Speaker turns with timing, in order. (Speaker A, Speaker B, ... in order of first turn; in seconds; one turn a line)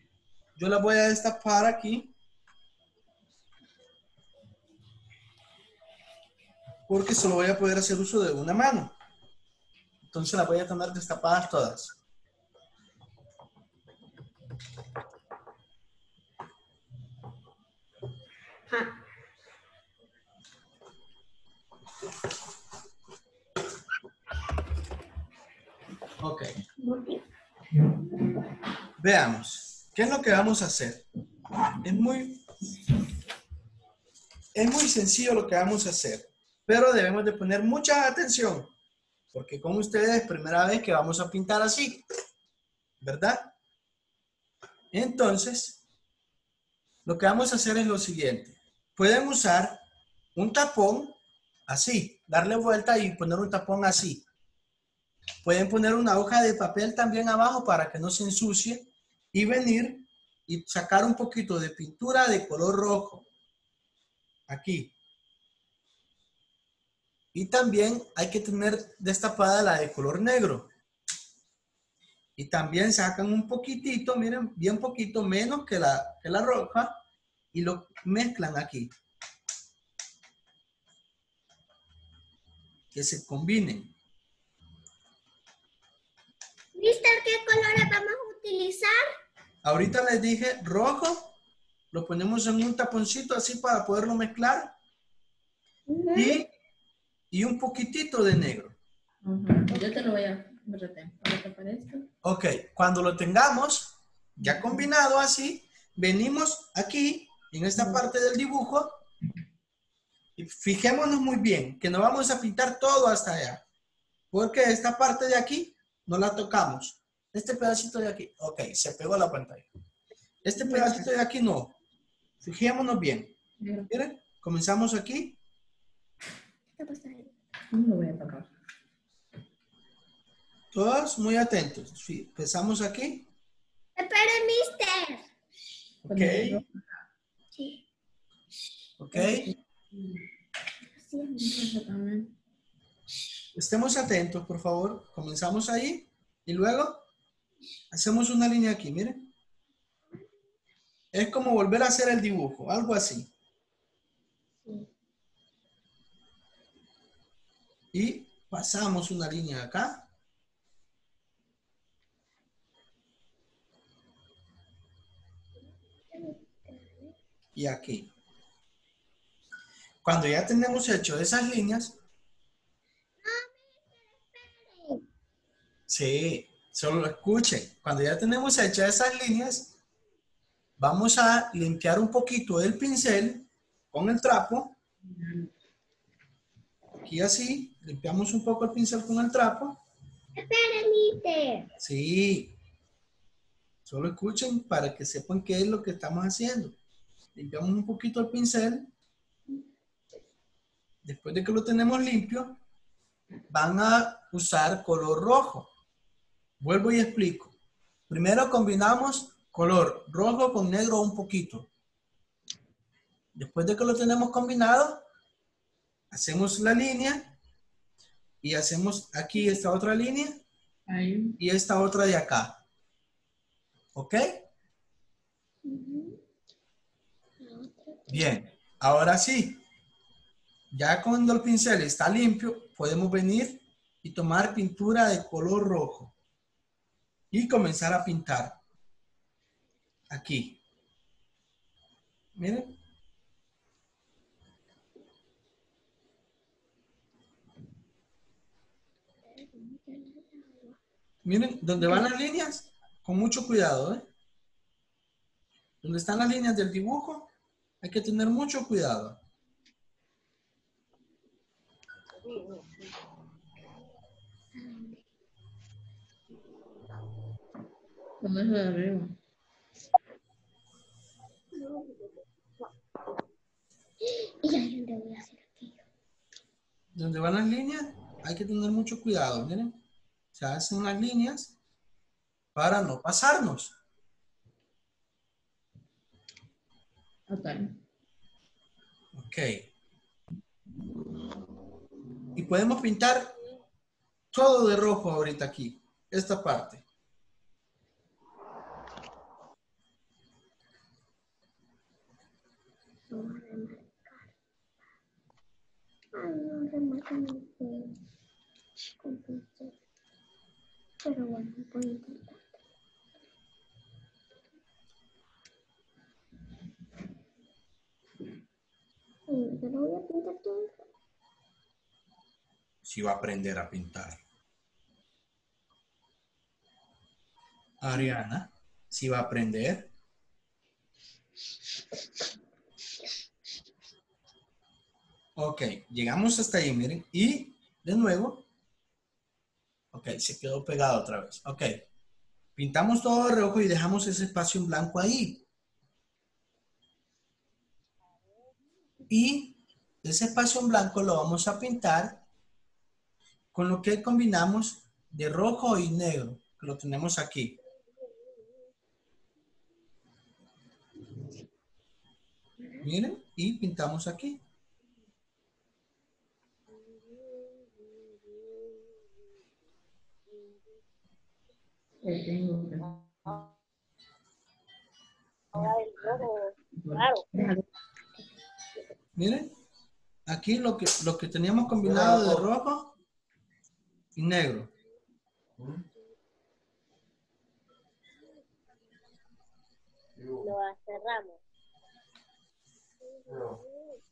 Speaker A: 0.6-2.1
Speaker A: 6.9-8.9
Speaker A: 10.1-11.9
Speaker A: 26.2-26.5
Speaker A: 29.0-31.0
Speaker A: 31.8-32.4
Speaker A: 34.5-38.7
Speaker A: 39.3-42.0
Speaker A: 43.0-43.5
Speaker A: 44.9-45.8
Speaker A: 47.0-49.8
Speaker A: 50.3-54.2
Speaker A: 55.4-63.3
Speaker A: 64.5-64.9
Speaker A: 67.3-70.7
Speaker A: 72.4-77.0
Speaker A: 77.5-78.9
Speaker A: 82.9-83.9
Speaker B: 86.7-88.9
Speaker A: 89.6-91.3
Speaker A: 91.9-94.7
Speaker B: 95.9-96.4
Speaker A: 96.1-96.5
Speaker A: 97.3-98.7
Speaker C: 99.2-102.1
Speaker A: 102.2-109.0
Speaker C: 104.4-104.8
Speaker A: 110.4-113.6
Speaker A: 114.3-119.7
Speaker A: 120.4-121.7
Speaker C: 120.6-121.0
Speaker A: 122.4-123.3
Speaker C: 123.6-123.9
Speaker A: 123.9-125.4
Speaker B: 126.8-127.3
Speaker C: 127.7-128.5
Speaker A: 130.7-133.3
Speaker B: 134.0-135.2
Speaker C: 136.0-136.8
Speaker A: 136.1-136.6
Speaker B: 137.5-137.8
Speaker A: 139.0-139.5
Speaker C: 139.1-140.2
Speaker B: 140.9-141.8
Speaker C: 141.4-142.3
Speaker A: 143.5-147.1
Speaker A: 147.9-149.3
Speaker A: 151.1-153.3
Speaker A: 157.9-160.0
Speaker B: 166.1-167.1
Speaker A: 167.6-168.1
Speaker A: 170.0-172.0
Speaker B: 173.2-173.7
Speaker B: 174.2-175.0
Speaker A: 175.9-179.7
Speaker A: 180.8-184.8
Speaker C: 185.1-185.5
Speaker A: 187.0-189.8
Speaker B: 190.3-191.7
Speaker A: 191.8-192.5
Speaker A: 193.9-196.8
Speaker A: 197.3-198.9
Speaker A: 201.0-202.6
Speaker A: 203.5-205.7
Speaker A: 206.6-207.5
Speaker A: 208.1-211.7
Speaker A: 213.3-215.0
Speaker A: 216.1-217.3
Speaker A: 218.4-220.4
Speaker C: 220.9-221.3
Speaker A: 221.4-222.6
Speaker A: 223.9-224.4
Speaker B: 225.6-226.2
Speaker B: 227.4-228.3
Speaker A: 228.1-229.6
Speaker A: 230.7-236.1
Speaker A: 237.3-238.6
Speaker A: 240.1-240.6
Speaker A: 242.3-242.7
Speaker B: 249.3-250.8
Speaker A: 251.2-254.0
Speaker A: 255.8-257.3
Speaker A: 257.8-259.2
Speaker D: 262.2-262.9
Speaker B: 264.6-265.0
Speaker C: 268.2-269.1
Speaker B: 274.1-275.8
Speaker A: 276.9-279.8
Speaker A: 280.3-281.5
Speaker A: 282.5-283.7
Speaker C: 287.3-287.7
Speaker A: 289.1-289.7
Speaker A: 292.4-293.3
Speaker A: 294.3-296.8
Speaker B: 303.1-304.3
Speaker B: 306.1-308.0
Speaker B: 309.0-309.7
Speaker B: 311.0-312.5
Speaker B: 319.3-320.8
Speaker A: 322.8-324.2
Speaker A: 327.8-329.9
Speaker A: 335.4-338.4
Speaker A: 339.9-341.8
Speaker A: 342.6-345.4
Speaker A: 349.1-352.2
Speaker A: 353.5-357.5
Speaker A: 362.8-364.4
Speaker D: 366.7-368.6
Speaker D: 370.3-370.6
Speaker C: 372.0-372.9
Speaker D: 372.8-373.5
Speaker D: 375.5-377.3
Speaker C: 376.7-377.6
Speaker A: 379.2-379.5
Speaker A: 380.3-382.9
Speaker A: 384.2-384.7
Speaker D: 390.4-391.4
Speaker D: 393.3-393.8